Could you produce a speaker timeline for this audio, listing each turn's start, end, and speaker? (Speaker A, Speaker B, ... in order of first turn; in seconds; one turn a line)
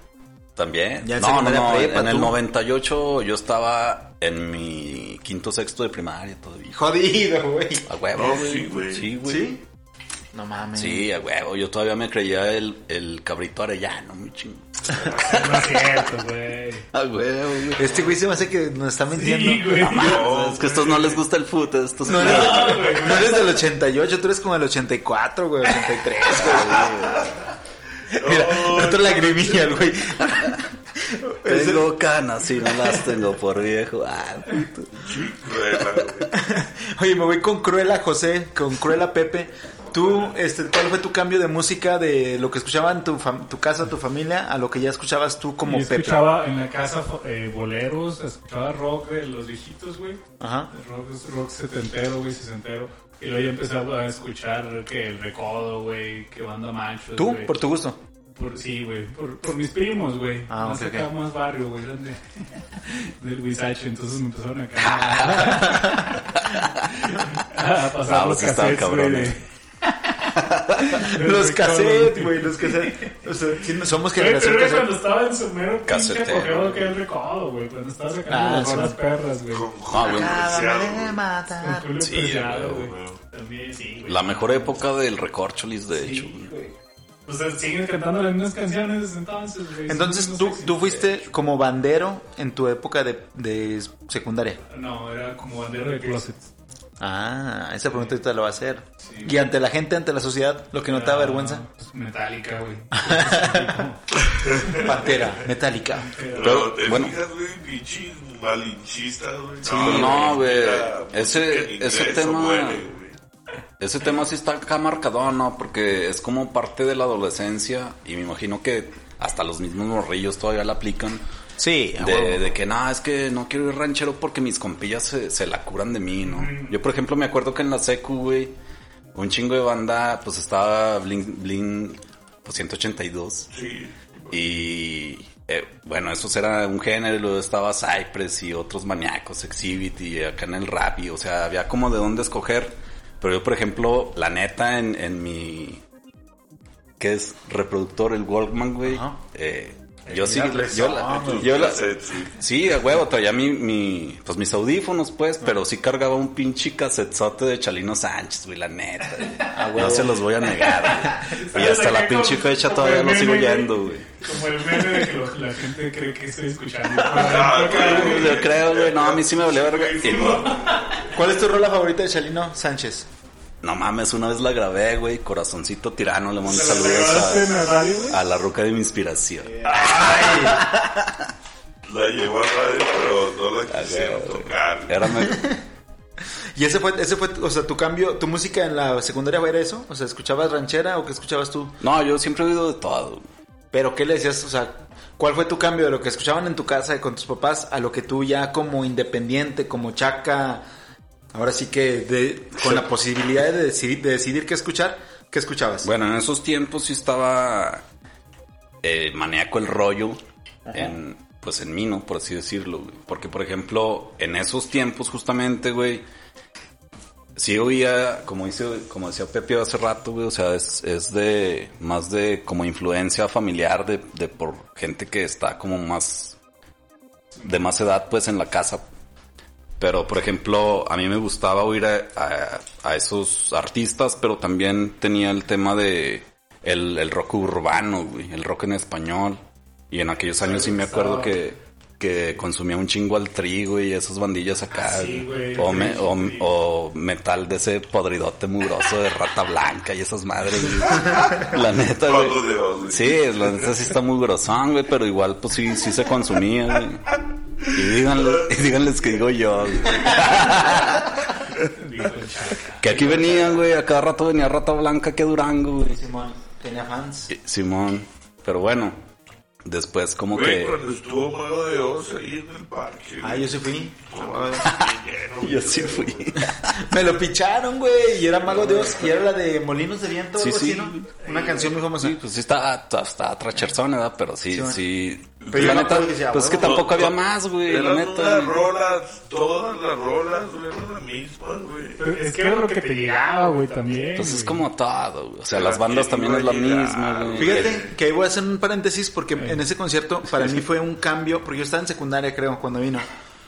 Speaker A: 0.6-6.8
Speaker B: 1.0-2.4
Speaker B: 6.7-7.9
Speaker A: 7.9-9.5
Speaker C: 8.1-9.1
Speaker B: 9.2-9.6
Speaker B: 10.3-11.1
Speaker A: 10.8-16.0
Speaker C: 14.9-15.6
Speaker D: 15.2-16.9
Speaker A: 16.9-18.1
Speaker B: 17.8-20.1
Speaker D: 19.1-20.4
Speaker A: 19.8-23.4
Speaker C: 19.9-21.2
Speaker D: 22.1-23.5
Speaker B: 22.1-27.2
Speaker A: 26.2-27.3
Speaker C: 28.1-29.8
Speaker B: 28.2-31.9
Speaker A: 31.4-35.1
Speaker C: 35.0-36.3
Speaker B: 36.3-46.2
Speaker D: 45.6-57.6
Speaker B: 50.4-50.7
Speaker B: 57.1-58.0
Speaker D: 58.4-69.4
Speaker B: 60.5-61.1
Speaker A: 65.1-65.6
Speaker B: 65.2-66.1
Speaker A: 68.0-69.4
Speaker A: 70.3-71.0
Speaker D: 70.8-73.1
Speaker B: 70.9-74.9
Speaker D: 74.1-79.7
Speaker A: 75.9-76.8
Speaker B: 78.3-79.0
Speaker C: 79.5-81.2
Speaker A: 79.9-80.6
Speaker B: 80.0-82.1
Speaker D: 81.6-84.8
Speaker A: 82.0-82.9
Speaker C: 82.6-83.2
Speaker A: 84.0-86.5
Speaker D: 85.9-86.7
Speaker D: 87.2-91.2
Speaker B: 89.9-94.6
Speaker D: 94.7-96.5
Speaker B: 97.0-101.6
Speaker D: 97.9-98.2
Speaker D: 99.0-99.4
Speaker D: 100.8-105.4
Speaker B: 102.9-103.8
Speaker C: 104.2-105.2
Speaker B: 104.7-106.2
Speaker D: 105.9-106.6
Speaker C: 106.3-113.2
Speaker A: 106.4-107.2
Speaker B: 109.6-110.3
Speaker A: 109.7-112.8
Speaker A: 113.8-121.2
Speaker B: 121.6-122.5
Speaker A: 122.0-128.5
Speaker D: 126.2-126.8
Speaker A: 129.1-133.5
Speaker C: 133.5-134.3
Speaker A: 134.3-145.8
Speaker A: 147.0-165.1
Speaker B: 148.8-149.2
Speaker B: 150.1-151.8
Speaker C: 150.8-152.4
Speaker B: 159.5-160.2
Speaker D: 160.5-168.4
Speaker C: 167.0-171.2
Speaker A: 167.2-170.6
Speaker D: 170.1-170.8
Speaker B: 171.1-173.1
Speaker A: 173.6-181.3
Speaker D: 176.4-178.2
Speaker B: 179.6-180.7
Speaker C: 179.7-180.2
Speaker C: 181.8-185.1
Speaker A: 183.7-185.5
Speaker B: 185.2-185.6
Speaker B: 186.6-191.8
Speaker A: 191.8-193.2
Speaker B: 193.7-200.6
Speaker B: 201.3-205.9
Speaker A: 205.8-207.8
Speaker A: 208.8-210.2
Speaker B: 210.7-211.0
Speaker A: 210.7-216.0
Speaker A: 217.4-226.4
Speaker A: 227.4-228.8
Speaker A: 229.8-257.1
Speaker D: 240.4-241.3
Speaker D: 244.7-246.5
Speaker C: 251.9-253.8
Speaker C: 257.6-260.8
Speaker A: 257.7-261.3
Speaker D: 261.6-263.2
Speaker A: 262.8-266.0
Speaker B: 265.9-267.3
Speaker A: 267.3-269.0
Speaker A: 269.6-270.8
Speaker C: 270.3-276.4
Speaker B: 273.2-274.7
Speaker A: 274.6-276.9
Speaker B: 276.7-282.2
Speaker A: 278.5-279.0
Speaker A: 280.4-281.2
Speaker A: 281.9-288.6
Speaker B: 284.5-284.8
Speaker C: 285.4-292.0
Speaker B: 285.5-287.1
Speaker D: 292.0-294.6
Speaker A: 294.1-297.8
Speaker C: 295.5-297.9
Speaker B: 297.4-303.1